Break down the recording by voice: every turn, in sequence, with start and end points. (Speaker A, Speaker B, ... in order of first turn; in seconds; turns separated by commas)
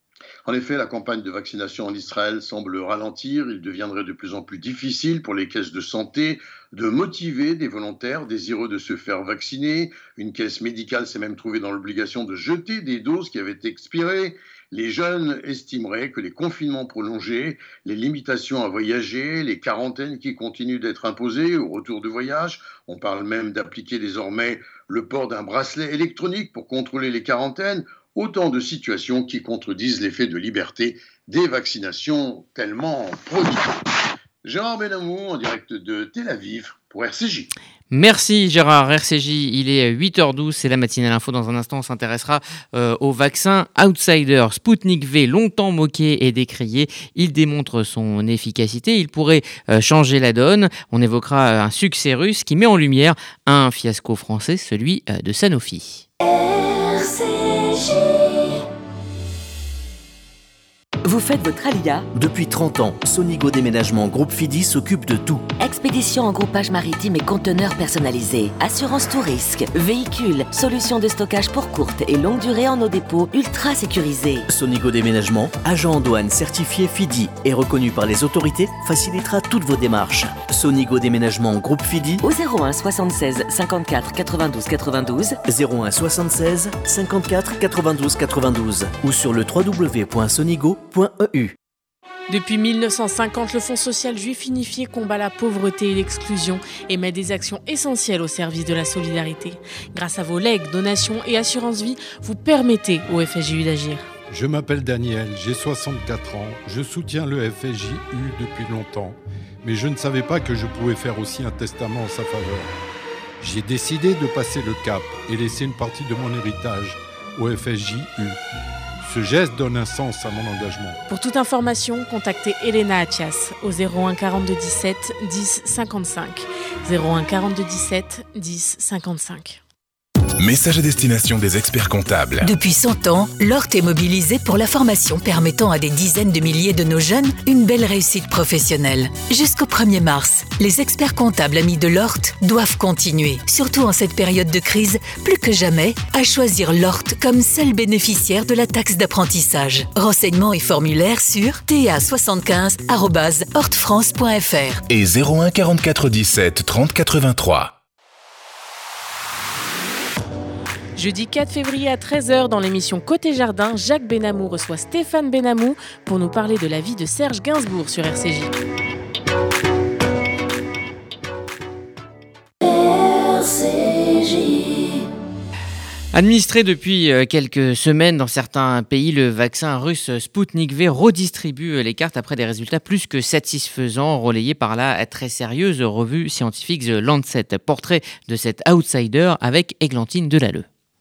Speaker A: 0.5-33.8, Speaker A: 34.4-37.5, Speaker B: 37.9-56.1, Speaker C: 61.0-62.1, Speaker D: 62.1-65.5, Speaker C: 65.6-74.5, Speaker D: 74.5-82.2, Speaker C: 82.2-85.4, Speaker D: 85.5-91.6, Speaker E: 92.3-104.1, Speaker F: 104.3-112.7, Speaker F: 113.4-118.4, Speaker F: 119.0-121.0, Speaker E: 121.1-129.6, Speaker G: 130.4-132.5, Speaker H: 132.4-154.8, Speaker G: 154.9-157.7, Speaker E: 161.0-168.5, Speaker B: 176.1-190.7